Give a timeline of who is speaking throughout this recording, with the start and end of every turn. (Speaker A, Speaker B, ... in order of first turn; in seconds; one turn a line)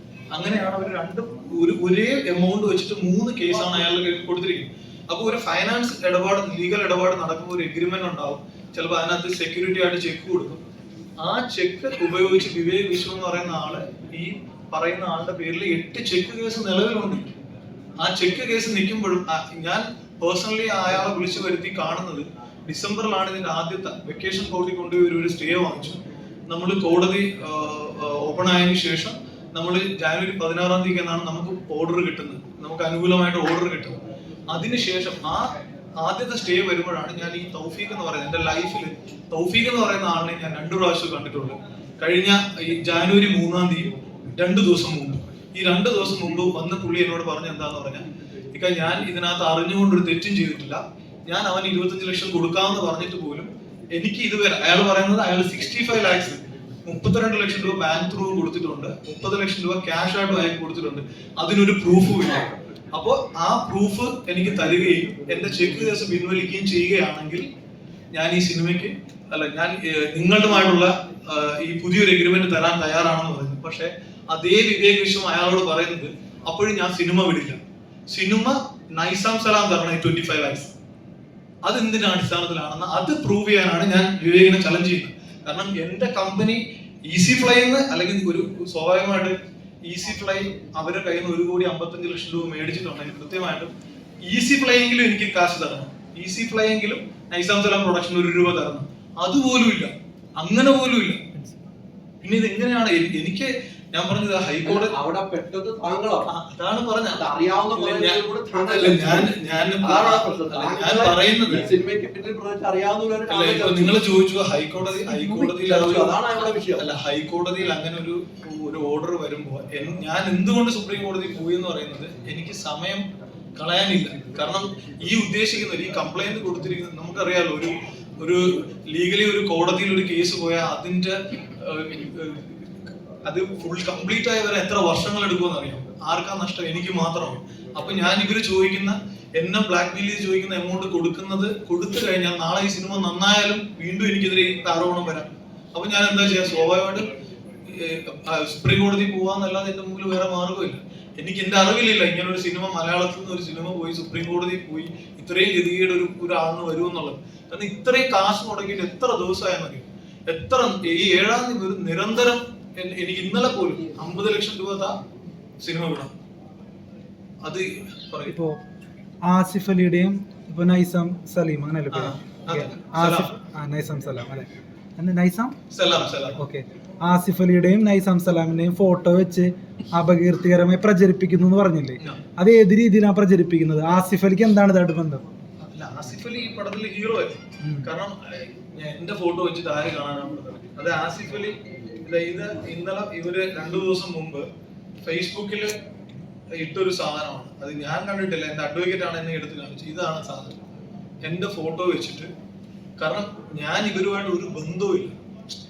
Speaker A: 0.3-10.6
Speaker A: 11.2-17.3
Speaker A: 18.0-26.0
Speaker A: 26.5-34.0
Speaker A: 34.5-67.5
Speaker A: 68.1-77.6
Speaker A: 78.1-80.7
Speaker A: 81.6-93.7
Speaker A: 94.2-101.2
Speaker A: 102.2-105.0
Speaker B: 104.7-106.3
Speaker A: 106.3-111.7
Speaker B: 107.2-114.0
Speaker A: 113.3-123.0
Speaker B: 115.1-116.9
Speaker A: 123.6-147.1
Speaker A: 147.7-165.0
Speaker A: 165.6-166.1
Speaker A: 167.4-168.3
Speaker C: 168.3-168.6
Speaker C: 169.2-175.5
Speaker A: 171.9-173.3
Speaker A: 175.7-176.4
Speaker C: 176.4-185.2
Speaker A: 185.6-194.5
Speaker A: 195.0-195.8
Speaker A: 196.5-200.6
Speaker A: 201.2-202.3
Speaker A: 203.0-205.2